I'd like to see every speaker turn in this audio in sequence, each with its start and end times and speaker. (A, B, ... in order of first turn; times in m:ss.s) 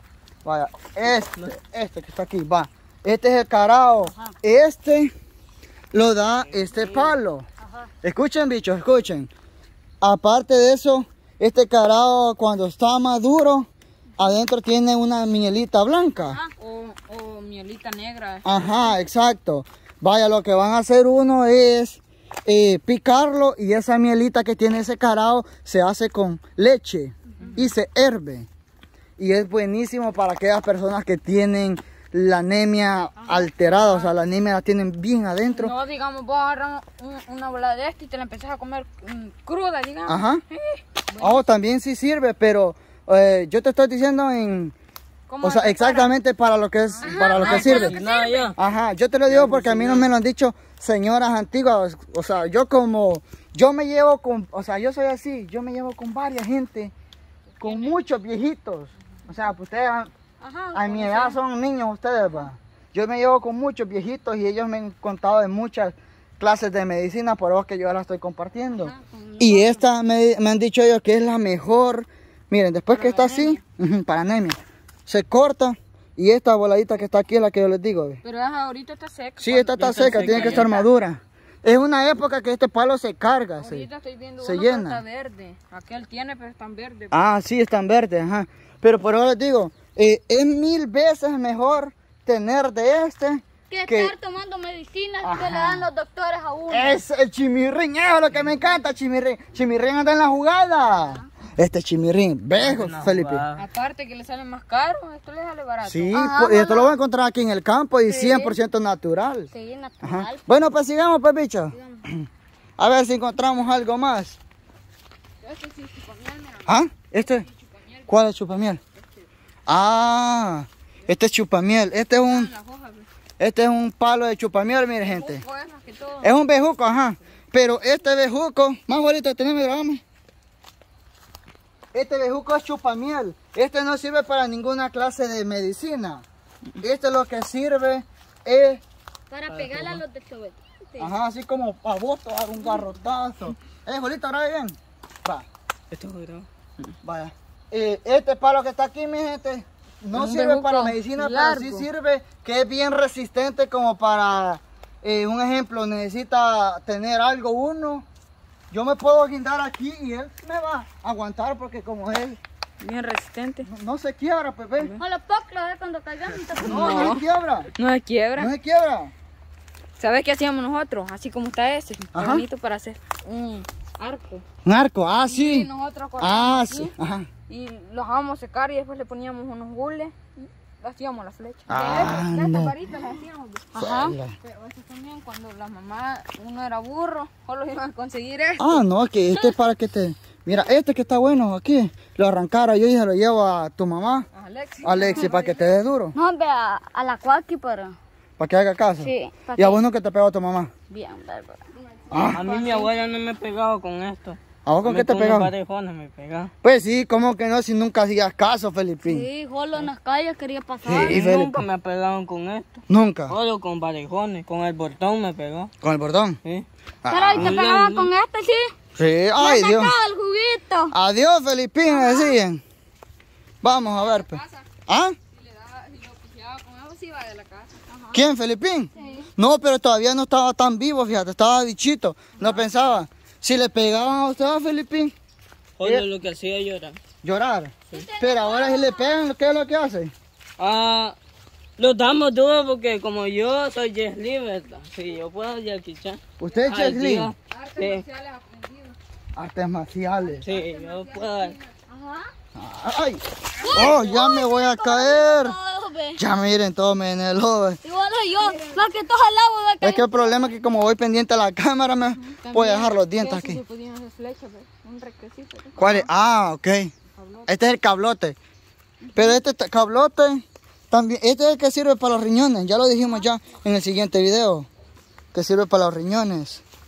0:00.4-0:05.1 A
0:04.1-0:04.3 B
0:05.9-0:07.4 A
0:06.4-0:07.2 C
0:08.0-0:09.3 A
0:10.0-0:13.7 A
0:14.2-0:16.4 A
0:16.2-0:16.5 B
0:16.6-0:18.8 D
0:18.4-0:28.5 A
0:27.4-0:27.6 D
0:29.2-0:35.7 A
0:33.2-0:34.1 D
0:35.5-0:41.5 D
0:40.1-0:40.4 A
0:41.2-0:44.7 A
0:45.3-0:46.1 D
0:45.4-0:47.9 A
0:47.0-0:48.5 D
0:47.0-0:47.4 B
0:47.3-0:48.6 C
0:48.6-0:56.9 A
0:49.3-0:50.1 C
0:57.6-0:58.0 D
0:57.6-1:00.1 A
1:00.4-1:01.4 B
1:00.7-1:18.2 A
1:08.8-1:09.8 B
1:12.9-1:13.6 D
1:18.2-1:20.8 D
1:19.4-1:23.9 A
1:19.8-1:20.7 C
1:23.6-1:27.2 D
1:24.4-1:25.0 A
1:27.1-1:34.1 A
1:33.7-1:37.0 B
1:35.2-1:35.9 A
1:36.7-1:43.4 A
1:40.9-1:41.2 B
1:42.6-1:43.6 C
1:43.6-1:46.1 D
1:45.8-1:49.5 A
1:46.1-1:46.9 B
1:48.1-1:48.5 B
1:49.5-1:50.6 B
1:50.0-1:54.4 A
1:51.7-1:52.0 B
1:55.4-1:58.2 D
1:56.6-1:57.4 A
1:58.1-1:58.8 A
1:59.0-1:59.2 D
1:59.7-2:02.5 A
2:02.3-2:03.1 D
2:03.4-2:05.4 A
2:05.0-2:06.3 D
2:06.2-2:10.0 A
2:11.9-2:16.2 A
2:16.8-2:18.8 A
2:19.3-2:21.1 B
2:19.5-2:20.0 C
2:21.0-2:25.4 A
2:25.9-2:26.4 C
2:27.0-2:38.0 A
2:30.1-2:31.9 D
2:38.7-2:42.4 A
2:42.8-2:43.6 D
2:43.6-2:44.9 A
2:45.0-2:47.2 B
2:46.6-2:48.5 D
2:46.6-2:47.7 A
2:48.4-2:49.1 A
2:50.0-2:54.4 D
2:52.1-2:52.4 A
2:54.6-2:55.7 A
2:55.2-2:56.9 D
2:56.2-2:57.3 A
2:57.5-3:03.7 D
3:01.7-3:02.8 A
3:03.7-3:04.1 B
3:03.7-3:04.3 A
3:04.4-3:08.8 D
3:08.6-3:14.2 A
3:14.3-3:15.6 D
3:14.8-3:16.1 A
3:16.1-3:18.0 B
3:18.4-3:20.7 A
3:19.0-3:19.8 B
3:20.9-3:21.7 B
3:22.1-3:22.5 A
3:22.1-3:22.8 D
3:22.3-3:26.5 C
3:24.6-3:25.5 A
3:26.6-3:29.3 A
3:29.0-3:31.2 B
3:30.8-3:31.6 A
3:31.0-3:32.8 C
3:32.9-3:33.3 A
3:33.3-3:35.7 C
3:35.8-3:36.4 A
3:37.0-3:37.5 A
3:37.1-3:38.7 B
3:37.3-3:38.1 C
3:39.0-3:39.9 A
3:39.4-3:40.9 B
3:40.9-3:42.6 A
3:41.9-3:42.4 B
3:43.6-3:45.2 A
3:43.8-3:44.7 D
3:45.3-3:47.8 D
3:48.1-3:55.1 A
3:55.8-3:57.0 C
3:57.2-4:00.1 A
3:57.9-3:59.3 B
4:00.6-4:01.2 C
4:01.8-4:08.0 C
4:06.4-4:07.3 A
4:07.5-4:09.0 D
4:09.3-4:10.4 A
4:10.2-4:11.7 D
4:10.4-4:11.6 C
4:11.9-4:12.3 B
4:12.5-4:15.6 A
4:13.6-4:16.2 B
4:16.2-4:17.8 A
4:17.8-4:20.5 B
4:18.4-4:18.8 D
4:19.8-4:23.6 A
4:22.2-4:26.1 D
4:25.8-4:26.9 A
4:27.1-4:27.6 D
4:27.5-4:28.4 A
4:29.0-4:29.4 D
4:29.1-4:34.7 A
4:35.3-4:36.6 A